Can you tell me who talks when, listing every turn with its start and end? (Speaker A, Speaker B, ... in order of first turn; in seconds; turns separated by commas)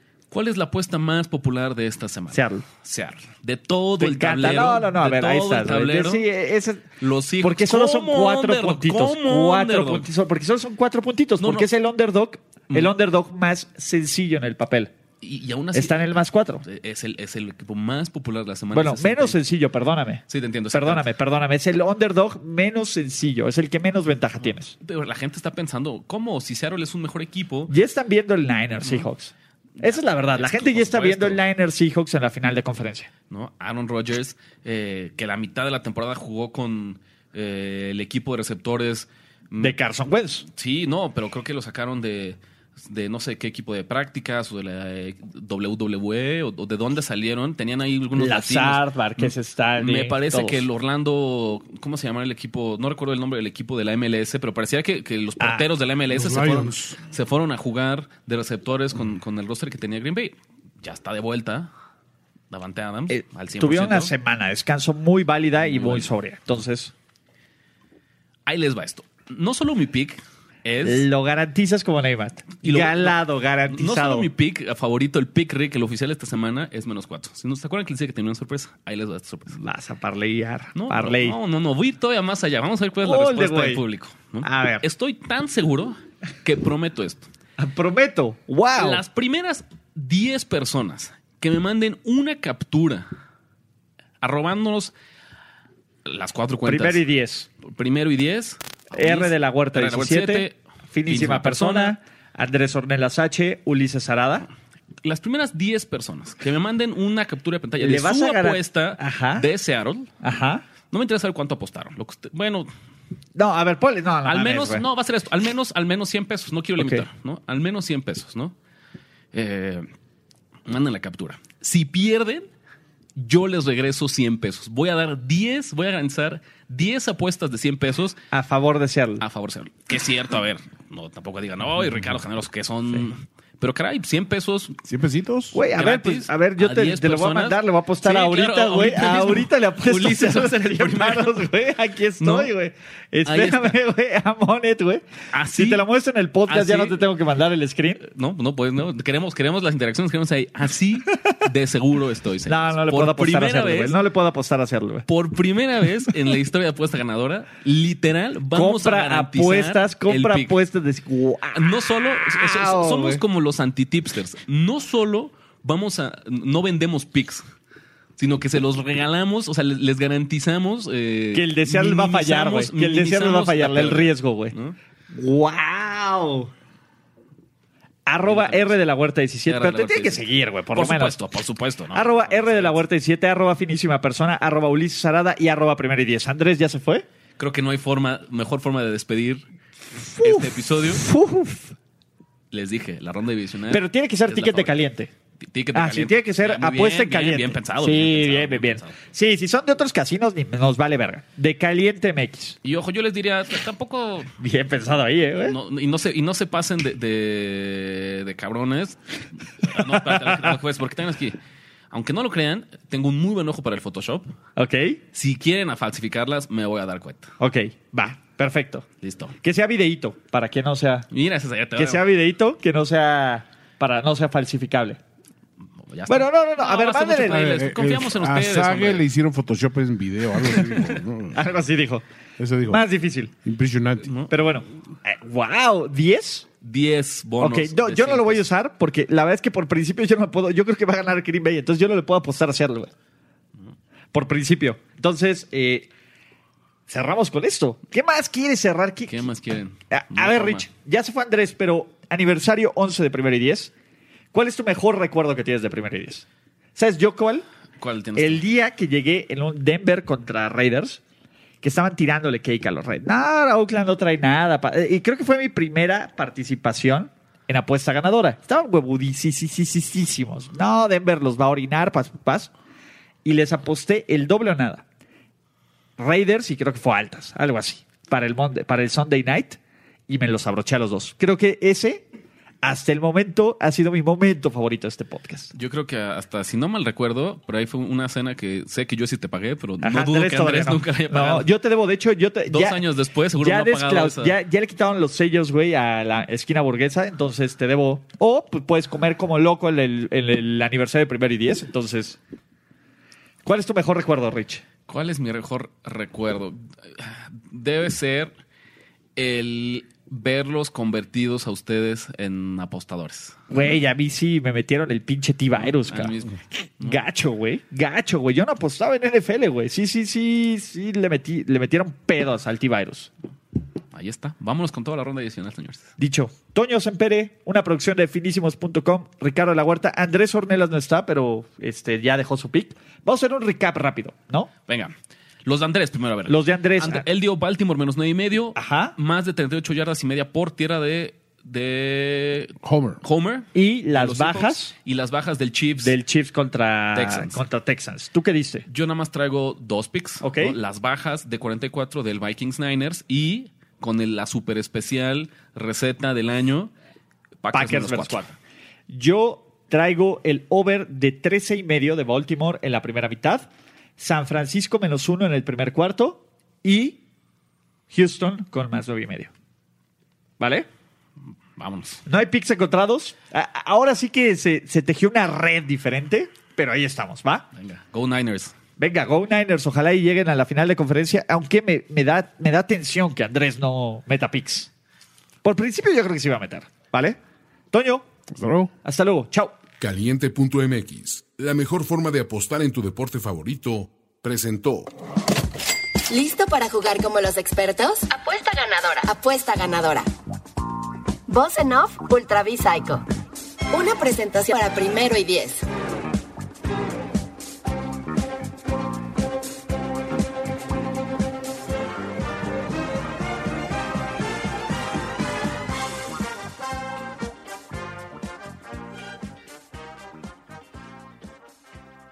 Speaker A: 0.3-6.3, Speaker B: 2.3-2.6, Speaker B: 4.0-6.9, Speaker A: 7.0-10.1, Speaker B: 7.4-14.9, Speaker A: 11.4-11.7, Speaker A: 15.2-19.4, Speaker B: 15.7-16.6, Speaker B: 18.7-24.7, Speaker A: 20.3-21.1, Speaker A: 24.8-27.7, Speaker B: 27.7-33.1, Speaker A: 29.8-31.4, Speaker A: 33.3-39.8, Speaker B: 39.6-40.5, Speaker A: 40.5-61.7, Speaker B: 48.2-50.6, Speaker B: 55.4-55.7, Speaker C: 56.1-57.0, Speaker A: 62.5-64.1, Speaker B: 63.1-66.9, Speaker A: 65.6-66.1, Speaker A: 68.5-71.1, Speaker B: 70.8-74.3, Speaker A: 72.6-73.2, Speaker A: 73.7-79.6, Speaker B: 79.6-81.4, Speaker A: 80.8-87.3, Speaker B: 83.0-83.8, Speaker B: 84.4-84.8, Speaker B: 87.6-89.0, Speaker A: 88.8-93.1, Speaker A: 94.2-94.9, Speaker A: 96.0-97.0, Speaker B: 96.6-97.5, Speaker A: 97.6-102.0, Speaker B: 98.9-104.5, Speaker A: 105.0-110.1, Speaker B: 107.8-109.5, Speaker B: 110.2-110.7, Speaker A: 110.9-112.7, Speaker B: 113.4-114.8, Speaker A: 114.2-118.5, Speaker B: 116.8-117.1, Speaker A: 119.3-119.9, Speaker A: 120.7-122.5, Speaker A: 123.2-128.2, Speaker B: 128.3-129.2, Speaker A: 129.2-134.8, Speaker C: 134.9-135.6, Speaker B: 135.5-148.0, Speaker A: 135.8-141.4, Speaker A: 142.2-142.5, Speaker A: 143.3-143.8, Speaker A: 145.3-145.8, Speaker A: 146.5-147.0, Speaker A: 148.0-154.0, Speaker B: 152.5-155.1, Speaker A: 155.1-160.5, Speaker B: 158.5-163.2, Speaker A: 161.6-167.4, Speaker A: 168.2-174.8, Speaker B: 171.3-174.6, Speaker B: 175.1-176.5, Speaker B: 178.1-181.2, Speaker A: 178.2-178.8, Speaker A: 179.5-182.8, Speaker B: 181.9-187.1, Speaker A: 187.4-189.4, Speaker B: 190.1-191.8, Speaker A: 190.2-191.0, Speaker A: 192.5-194.8, Speaker B: 193.7-195.1, Speaker A: 195.4-199.0, Speaker B: 195.7-202.6, Speaker A: 202.6-204.3, Speaker B: 204.4-205.6, Speaker A: 205.4-211.4, Speaker B: 209.9-210.5, Speaker A: 211.9-214.3, Speaker B: 214.6-215.0, Speaker A: 215.1-217.3, Speaker B: 217.4-218.9, Speaker A: 219.0-219.3, Speaker B: 219.4-221.1, Speaker A: 221.1-222.1, Speaker B: 221.8-225.0, Speaker A: 225.9-229.1, Speaker B: 226.1-227.7, Speaker C: 227.3-231.4, Speaker B: 231.3-232.0, Speaker C: 232.4-232.8, Speaker B: 232.7-233.3, Speaker C: 233.4-234.1, Speaker A: 234.0-234.3, Speaker B: 234.3-236.5, Speaker A: 236.6-238.4, Speaker B: 237.4-242.9, Speaker B: 244.1-245.9, Speaker B: 246.9-249.3, Speaker A: 249.1-250.7, Speaker B: 249.9-253.7, Speaker B: 254.3-256.2, Speaker B: 256.8-257.4, Speaker A: 257.8-258.4, Speaker B: 258.2-261.0, Speaker B: 261.6-272.5, Speaker B: 273.2-274.8, Speaker B: 276.0-282.0, Speaker B: 282.6-285.5, Speaker A: 285.5-291.5, Speaker B: 289.8-292.8, Speaker A: 292.5-294.4, Speaker B: 293.4-302.2, Speaker B: 303.4-304.6, Speaker A: 304.9-308.3, Speaker A: 309.2-313.4, Speaker B: 313.5-323.1, Speaker A: 315.6-317.0, Speaker A: 323.9-325.9, Speaker B: 326.0-334.5, Speaker A: 334.7-334.9, Speaker A: 335.4-346.0, Speaker B: 336.3-337.1, Speaker B: 338.6-338.9, Speaker C: 342.6-343.0, Speaker B: 343.5-344.7, Speaker B: 345.8-348.7, Speaker A: 347.0-347.4, Speaker A: 348.7-356.7, Speaker B: 350.2-350.6, Speaker A: 357.4-358.2, Speaker B: 357.5-358.4, Speaker B: 358.9-367.0, Speaker B: 367.9-369.3, Speaker B: 370.4-370.7, Speaker A: 371.6-372.0, Speaker B: 372.1-377.5, Speaker A: 377.6-378.6, Speaker B: 378.8-384.7, Speaker B: 385.4-387.2, Speaker B: 387.7-388.1, Speaker C: 388.3-388.7, Speaker B: 388.8-389.6, Speaker D: 389.8-394.9, Speaker E: 396.1-400.1, Speaker E: 401.3-403.1, Speaker E: 403.7-405.7